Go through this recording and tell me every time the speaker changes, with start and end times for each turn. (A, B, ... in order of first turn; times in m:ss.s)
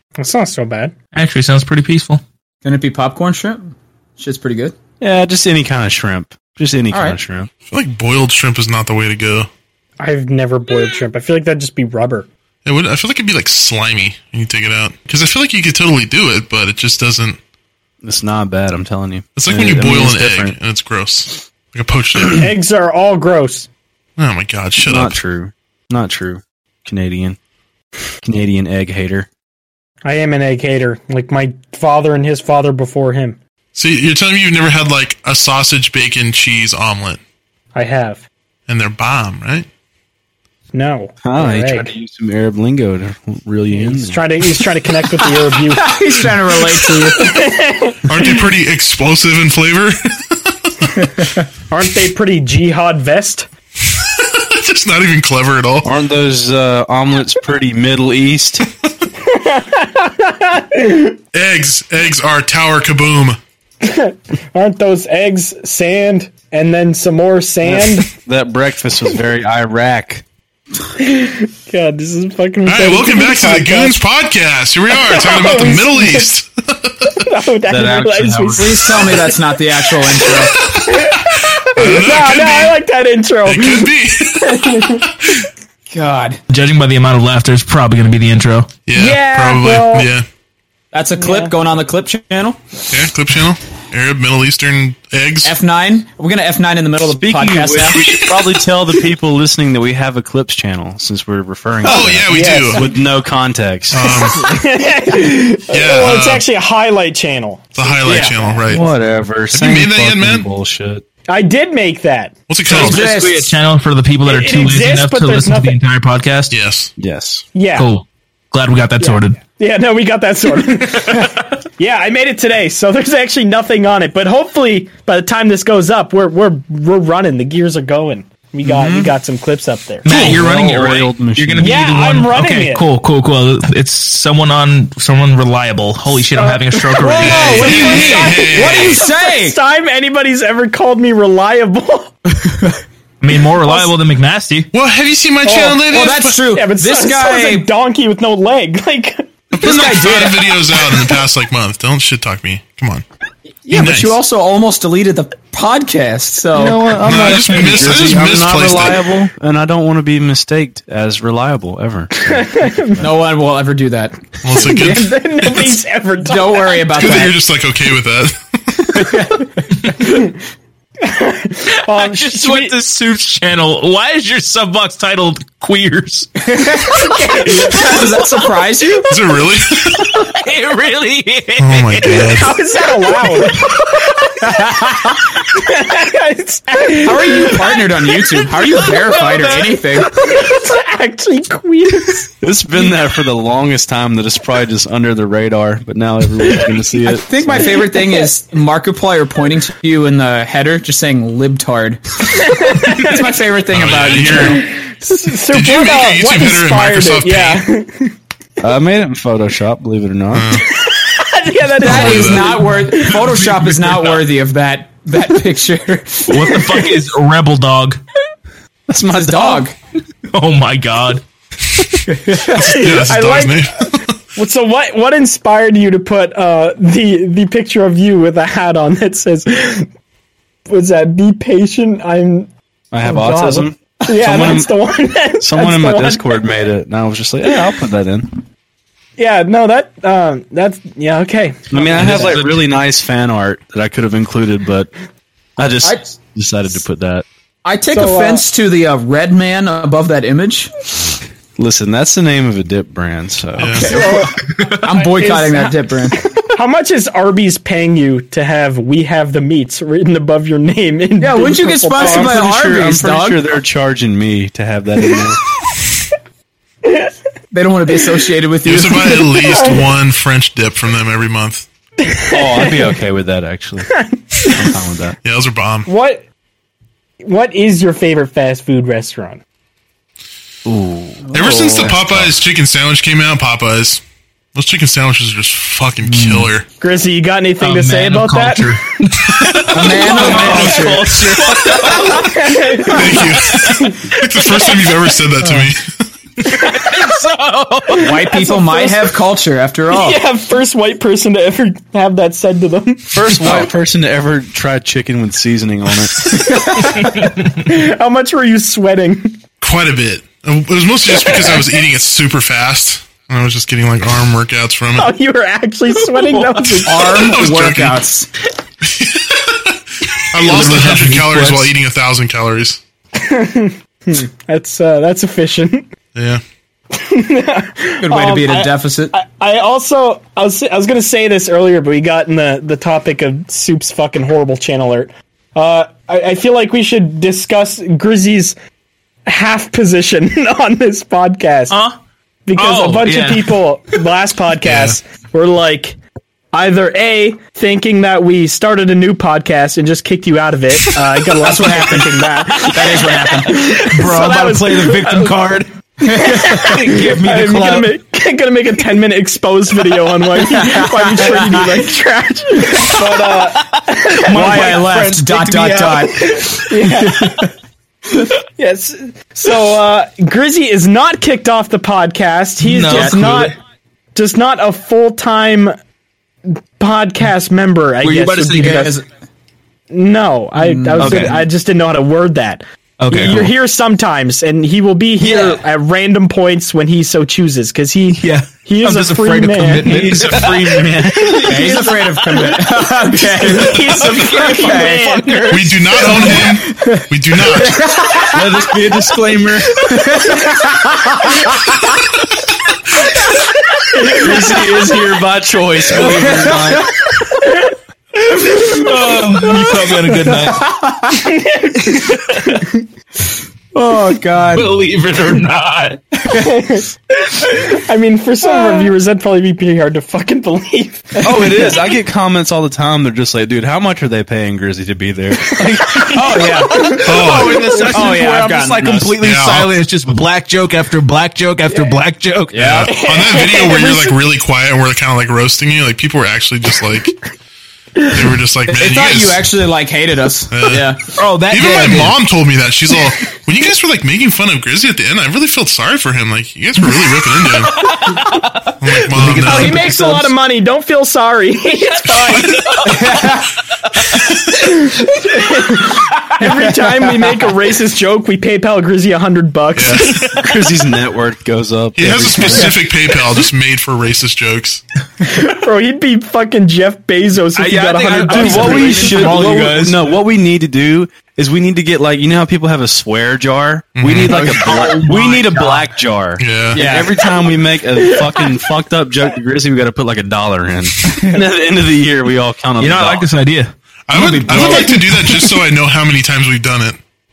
0:00.2-0:00.9 A
0:01.1-0:02.2 B
0:02.6-0:04.8 C
0:05.0-0:07.5 D
0:06.9-0:07.2 C
0:07.7-0:09.5 E
0:10.0-0:12.3 A
0:12.6-0:17.4 E
0:18.0-0:20.6 D
0:19.4-0:22.5 E
0:22.3-0:23.7 A
0:24.2-0:25.2 E
0:24.8-0:27.4 D
0:28.2-0:29.3 D
0:30.0-0:33.4 A
0:33.7-0:37.2 E
0:37.7-0:38.2 A
0:38.7-0:39.7 E
0:40.7-0:41.9 A
0:41.2-0:44.2 D
0:43.7-0:46.0 A
0:45.2-0:47.4 C
0:46.9-0:48.4 A
0:48.1-0:51.1 E
0:51.7-0:53.5 A
0:53.9-0:55.9 E
0:55.8-0:58.6 D
0:59.2-1:01.1 A
1:01.3-1:03.4 E
1:03.8-1:08.1 A
1:07.6-1:10.2 D
1:11.0-1:14.0 A
1:12.6-1:17.1 E
1:14.9-1:16.3 A
1:17.1-1:19.4 A
1:17.7-1:19.3 D
1:18.6-1:20.5 C
1:20.2-1:25.4 A
1:20.2-1:22.8 E
1:23.4-1:25.4 E
1:25.9-1:26.4 C
1:26.5-1:28.7 B
1:28.8-1:30.2 E
1:28.9-1:30.1 A
1:30.9-1:32.6 C
1:31.2-1:31.5 A
1:32.9-1:35.5 E
1:35.4-1:38.2 C
1:37.0-1:44.2 D
1:41.8-1:42.8 E
1:41.9-1:42.9 A
1:43.9-1:44.5 E
1:44.3-1:48.5 A
1:45.7-1:46.4 E
1:47.8-1:48.9 E
1:48.0-1:48.6 C
1:48.7-1:51.0 D
1:49.5-1:50.5 E
1:51.3-1:52.3 A
1:52.5-1:53.1 E
1:52.7-1:53.5 C
1:52.7-1:56.5 B
1:54.2-1:55.8 A
1:56.5-1:56.9 E
1:57.0-1:57.4 D
1:57.5-1:57.9 A
1:57.7-1:59.4 B
1:59.0-2:10.3 A
2:10.0-2:17.8 B
2:10.0-2:12.0 D
2:11.6-2:12.9 A
2:16.3-2:22.1 A
2:17.0-2:19.6 C
2:17.2-2:19.0 E
2:23.2-2:24.7 B
2:23.6-2:23.9 A
2:24.7-2:26.4 E
2:25.4-2:29.3 A
2:25.9-2:27.7 C
2:29.5-2:30.8 C
2:29.6-2:33.0 E
2:33.6-2:36.9 C
2:33.7-2:34.2 E
2:36.5-2:43.1 D
2:37.0-2:39.1 E
2:42.2-2:43.0 A
2:43.0-2:44.8 C
2:44.4-2:45.8 E
2:44.5-2:46.8 A
2:46.2-2:47.4 C
2:46.9-2:49.3 E
2:48.9-2:49.3 C
2:51.0-2:52.7 A
2:51.7-2:56.5 B
2:56.5-2:59.1 C
2:57.0-2:58.1 A
2:59.0-3:00.2 E
3:00.1-3:02.4 B
3:01.6-3:02.5 E
3:02.0-3:03.9 A
3:03.5-3:03.8 B
3:04.5-3:05.1 C
3:05.5-3:07.8 A
3:07.0-3:10.1 C
3:08.8-3:09.7 B
3:10.0-3:12.3 A
3:12.4-3:17.8 D
3:17.0-3:24.6 C
3:17.8-3:18.3 A
3:22.4-3:23.3 A
3:23.7-3:24.7 E
3:24.2-3:28.1 A
3:25.5-3:27.6 E
3:28.6-3:30.6 D
3:30.3-3:30.8 E
3:30.7-3:33.4 A
3:31.8-3:32.6 E
3:31.8-3:36.8 C
3:33.1-3:33.9 B
3:36.2-3:38.0 B
3:38.9-3:39.6 D
3:39.2-3:39.7 C
3:40.3-3:41.2 B
3:42.1-3:42.4 C
3:42.4-3:44.2 E
3:42.4-3:49.9 A
3:50.7-3:52.5 A
3:52.9-3:54.7 D
3:53.0-3:56.4 A
3:55.4-3:58.4 D
3:59.2-4:02.2 A
4:01.7-4:04.9 D
4:01.9-4:02.6 B
4:05.6-4:07.2 D
4:05.8-4:06.1 C
4:07.6-4:10.7 C
4:07.9-4:08.4 A
4:11.6-4:14.0 D
4:13.6-4:14.0 E
4:13.6-4:16.2 C
4:13.8-4:22.4 A
4:14.4-4:14.8 B
4:21.2-4:23.4 C
4:22.0-4:25.4 D
4:26.8-4:27.1 A
4:27.5-4:29.4 C
4:28.6-4:31.6 E
4:29.1-4:29.9 A
4:32.1-4:33.0 A
4:32.3-4:35.2 D
4:33.9-4:34.7 A
4:35.2-4:35.9 E
4:35.9-4:36.2 A
4:37.2-4:39.4 A
4:40.6-4:42.4 D
4:41.3-4:42.0 C
4:41.3-4:44.0 E
4:44.5-4:46.6 E
4:46.2-4:46.5 C
4:46.8-4:55.1 A
4:47.6-4:53.9 B
4:49.7-4:52.3 C
4:52.9-4:56.1 E
4:56.4-4:58.2 B
4:56.4-4:57.1 A
4:58.0-5:00.2 C
4:58.0-4:59.1 A
4:59.9-5:03.2 A
5:03.1-5:06.5 D
5:06.4-5:09.4 A
5:06.9-5:07.6 B
5:09.6-5:15.1 E
5:11.2-5:11.6 A
5:15.0-5:17.3 A
5:16.4-5:16.8 B
5:16.8-5:18.3 C
5:17.1-5:18.0 E
5:18.8-5:19.7 E
5:20.3-5:22.8 E
5:20.3-5:21.7 B
5:23.2-5:25.9 A
5:26.1-5:26.4 E
5:26.9-5:38.6 A
5:28.0-5:29.1 C
5:39.2-5:41.8 A
5:41.7-5:42.0 B
5:42.5-5:46.0 A
5:42.5-5:43.6 B
5:44.7-5:45.0 B
5:46.5-5:55.4 A
5:51.4-5:53.8 C
5:53.8-5:55.7 B
5:56.0-6:04.8 A
5:56.0-5:56.4 C
5:56.3-5:57.9 B
6:00.5-6:01.8 C
6:03.5-6:06.6 B
6:04.3-6:07.5 C
6:06.2-6:07.5 A
6:08.6-6:13.6 A
6:12.6-6:13.5 B
6:12.9-6:13.5 C
6:14.1-6:15.8 A
6:16.5-6:19.0 A
6:18.0-6:18.9 B
6:18.6-6:19.0 C
6:19.9-6:30.3 A
6:20.6-6:21.4 C
6:21.0-6:21.4 B
6:23.0-6:23.5 B
6:25.2-6:25.6 C
6:28.2-6:30.8 B
6:29.8-6:31.5 D
6:31.1-6:36.4 A
6:31.4-6:38.8 C
6:34.0-6:35.5 B
6:35.5-6:37.9 E
6:38.3-6:39.8 D
6:39.7-6:41.8 C
6:43.9-6:44.4 A
6:44.0-6:46.9 D
6:44.1-6:45.0 C
6:45.9-6:46.8 C
6:48.5-6:50.8 B
6:50.5-6:51.2 C
6:51.1-6:52.8 A
6:51.9-6:52.6 B
6:53.7-6:54.7 C
6:54.5-6:56.0 B
6:56.3-7:01.9 A
7:01.2-7:06.3 D
7:05.4-7:07.6 A
7:06.0-7:09.1 C
7:06.7-7:12.8 B
7:07.0-7:08.1 E
7:09.1-7:09.8 E
7:12.5-7:12.9 C
7:12.6-7:17.2 E
7:12.9-7:14.2 A
7:18.0-7:18.3 A
7:18.1-7:19.4 E
7:18.7-7:21.0 C
7:20.5-7:28.0 E
7:21.1-7:22.2 B
7:27.7-7:30.3 B
7:28.8-7:29.9 E
7:29.3-7:33.1 A
7:32.1-7:33.1 B
7:32.8-7:33.5 C
7:34.5-7:40.4 A
7:37.1-7:37.3 C
7:39.7-7:40.3 E
7:40.0-7:40.4 B
7:40.3-7:42.9 D
7:42.0-7:44.8 E
7:45.2-7:49.6 A
7:47.5-7:50.1 B
7:48.3-8:03.3 D
7:54.0-7:54.5 E
7:54.3-7:55.9 B
7:54.3-7:54.7 C
7:56.4-7:56.8 E
7:56.7-7:57.2 C
7:58.0-7:58.6 A
8:02.8-8:03.7 B
8:04.1-8:07.0 E
8:04.1-8:05.1 C
8:04.5-8:04.9 A